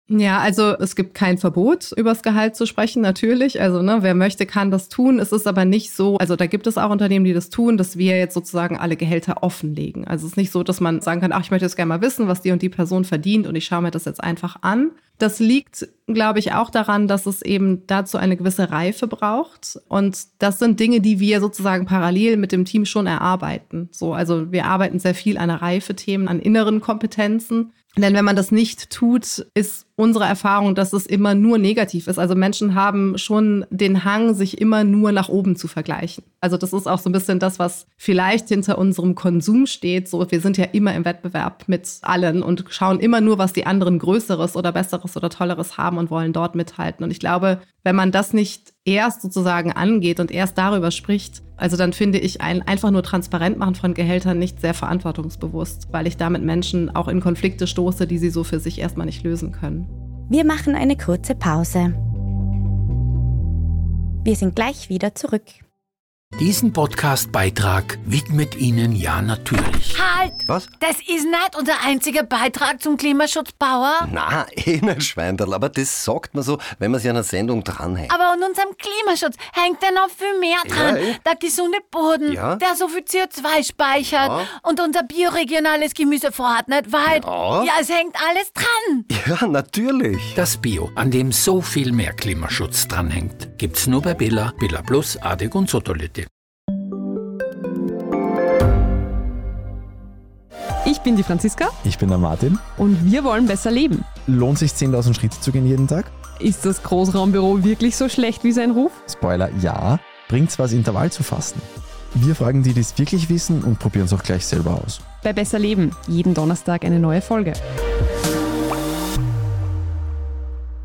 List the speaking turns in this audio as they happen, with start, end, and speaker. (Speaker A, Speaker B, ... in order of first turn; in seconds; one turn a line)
Speaker A: 0.1-59.9
Speaker B: 60.3-62.0
Speaker B: 64.2-65.6
Speaker C: 66.4-70.0
Speaker D: 69.9-74.0
Speaker E: 74.0-78.1
Speaker D: 78.1-89.0
Speaker E: 80.6-81.2
Speaker E: 82.3-82.6
Speaker E: 84.2-84.5
Speaker E: 87.1-87.7
Speaker E: 89.1-90.4
Speaker C: 90.3-96.3
Speaker F: 100.8-101.8
Speaker G: 101.8-102.7
Speaker F: 102.7-104.1
Speaker G: 104.2-106.1
Speaker F: 106.4-109.0
Speaker G: 109.0-115.0
Speaker F: 115.2-117.6